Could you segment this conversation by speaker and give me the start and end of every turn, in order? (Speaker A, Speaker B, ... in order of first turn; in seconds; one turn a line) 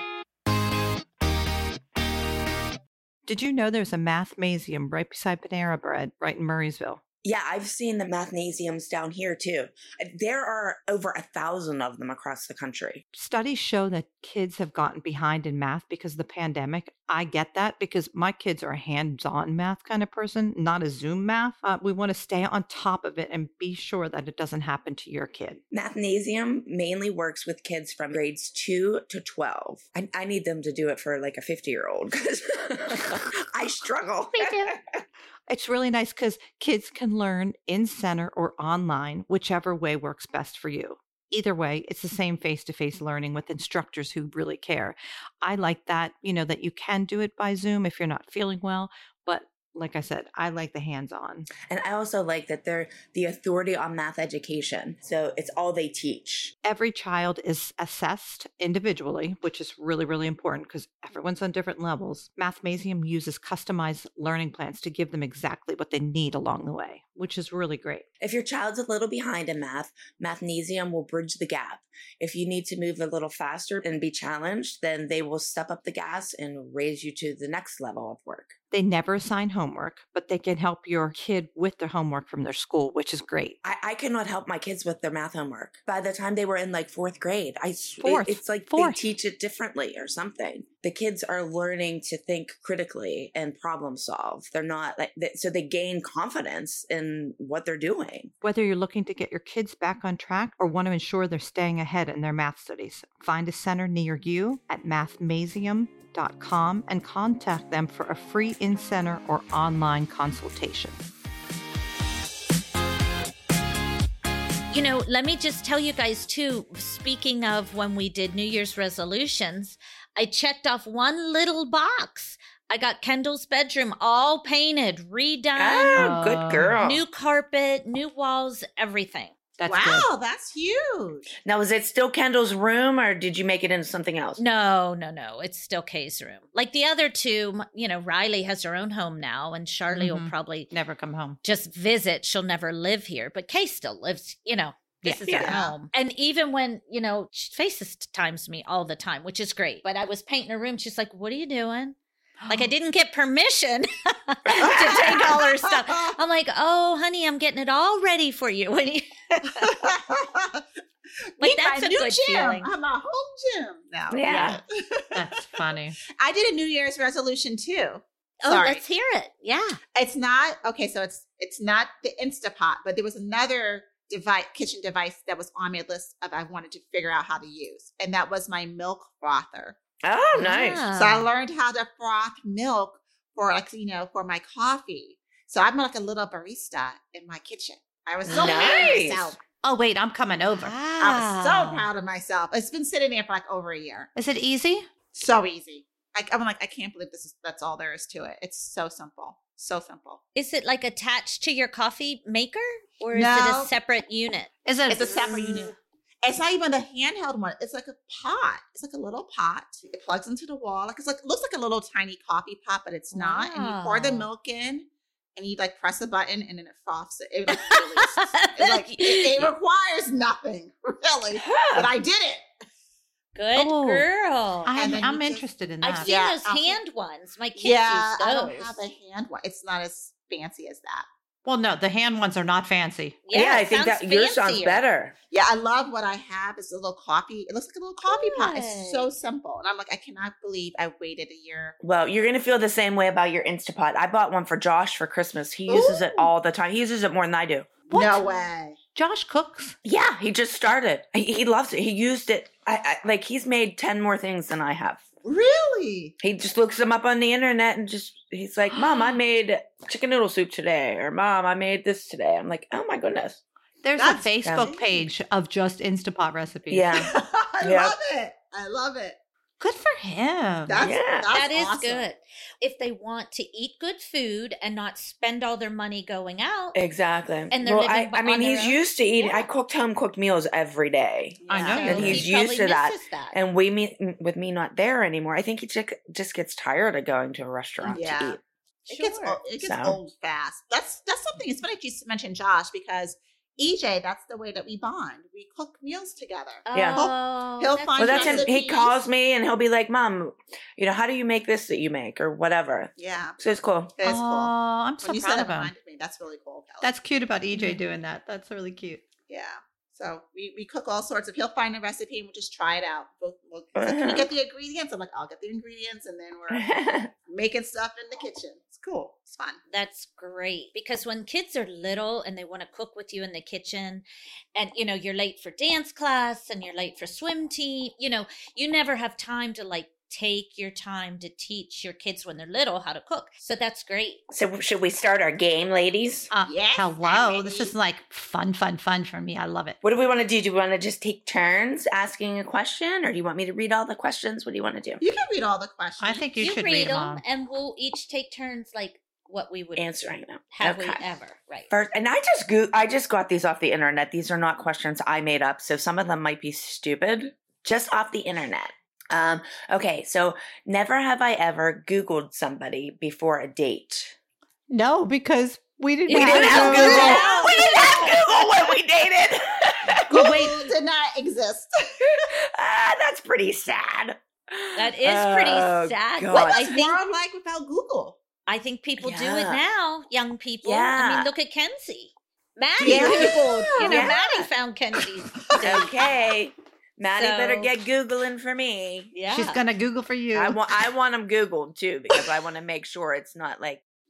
Speaker A: 3.2-7.0
Speaker B: 7.2-13.0
Speaker A: 13.1-25.6
Speaker B: 25.7-35.0
Speaker A: 34.4-34.7
Speaker A: 35.5-51.5
Speaker B: 51.7-56.5
Speaker A: 56.6-68.0
Speaker B: 68.2-78.5
Speaker A: 78.7-83.6
Speaker B: 83.6-98.3
Speaker A: 88.0-89.0
Speaker A: 98.4-111.0
Speaker C: 114.7-126.1
Speaker B: 125.6-127.0
Speaker A: 126.0-126.8
Speaker C: 126.8-129.3
Speaker A: 129.6-130.1
Speaker D: 129.7-131.4
Speaker B: 131.4-134.4
Speaker C: 134.4-140.7
Speaker A: 139.9-141.4
Speaker C: 141.4-152.0
Speaker B: 145.3-145.6
Speaker D: 145.3-145.8
Speaker A: 152.4-152.7
Speaker C: 152.5-159.7
Speaker B: 154.5-155.3
Speaker D: 154.6-156.1
Speaker D: 159.6-160.6
Speaker D: 161.4-165.7
Speaker C: 161.4-162.7
Speaker B: 164.1-164.6
Speaker C: 164.2-164.6
Speaker A: 165.1-166.0
Speaker D: 166.2-168.8
Speaker C: 168.4-169.8
Speaker D: 169.9-179.8
Speaker B: 180.0-180.9
Speaker C: 180.3-181.3
Speaker D: 180.9-189.4
Speaker B: 188.3-189.3
Speaker C: 188.3-189.0
Speaker A: 189.6-190.8
Speaker C: 190.6-191.9
Speaker D: 191.0-194.1
Speaker A: 194.2-194.9
Speaker D: 195.1-200.2
Speaker C: 200.3-204.5
Speaker D: 203.1-203.7
Speaker A: 204.7-205.8
Speaker D: 204.9-222.5
Speaker C: 213.1-214.3
Speaker C: 217.5-219.5
Speaker B: 221.3-221.9
Speaker C: 223.3-225.0
Speaker A: 223.6-224.1
Speaker A: 224.6-226.1
Speaker D: 224.8-225.4
Speaker C: 225.8-228.8
Speaker D: 226.0-226.8
Speaker D: 227.6-231.1
Speaker A: 231.4-233.2
Speaker C: 233.3-234.8
Speaker B: 233.3-235.1
Speaker D: 235.3-241.8
Speaker C: 238.1-239.1
Speaker B: 241.8-247.7
Speaker D: 245.7-246.3
Speaker D: 247.9-248.8
Speaker A: 247.9-248.3
Speaker A: 248.9-249.8
Speaker B: 249.8-255.1
Speaker D: 255.2-256.1
Speaker B: 256.2-263.4
Speaker A: 258.7-259.2
Speaker A: 263.8-267.1
Speaker D: 264.0-265.1
Speaker B: 264.4-264.7
Speaker B: 266.7-267.1
Speaker D: 266.9-269.2
Speaker B: 267.6-268.0
Speaker A: 269.6-270.8
Speaker D: 270.7-272.1
Speaker B: 270.8-271.3
Speaker C: 271.3-276.8
Speaker B: 276.8-288.4
Speaker C: 277.5-279.5
Speaker D: 281.4-282.2
Speaker A: 281.5-282.2
Speaker C: 281.7-283.4
Speaker D: 287.9-288.4
Speaker C: 288.9-289.4
Speaker D: 288.9-298.9
Speaker B: 289.6-290.0
Speaker C: 296.6-298.5
Speaker B: 296.7-297.0
Speaker B: 298.0-303.9
Speaker D: 303.0-303.4
Speaker D: 304.0-306.9
Speaker A: 304.0-305.7
Speaker A: 306.8-309.0
Speaker D: 309.3-316.7
Speaker B: 313.8-314.3
Speaker B: 316.5-317.1
Speaker D: 317.2-319.6
Speaker C: 319.7-334.2
Speaker B: 334.3-336.3
Speaker A: 336.3-339.8
Speaker D: 336.4-337.7
Speaker B: 339.8-345.0
Speaker D: 345.0-346.3
Speaker A: 346.0-347.2
Speaker C: 346.4-349.9
Speaker B: 349.8-351.1
Speaker C: 350.5-351.7
Speaker B: 351.7-364.1
Speaker A: 364.7-367.4
Speaker C: 366.1-368.8
Speaker B: 366.1-370.7
Speaker D: 366.5-368.2
Speaker D: 370.1-372.1
Speaker B: 372.0-376.7
Speaker C: 374.8-377.0
Speaker D: 376.3-378.2
Speaker C: 378.5-385.9
Speaker B: 379.0-379.6
Speaker B: 380.6-381.3
Speaker D: 382.8-384.1
Speaker A: 382.9-383.4
Speaker B: 382.9-384.4
Speaker B: 385.6-389.1
Speaker C: 387.1-387.7
Speaker C: 389.1-389.6
Speaker A: 389.3-390.6
Speaker B: 390.3-393.8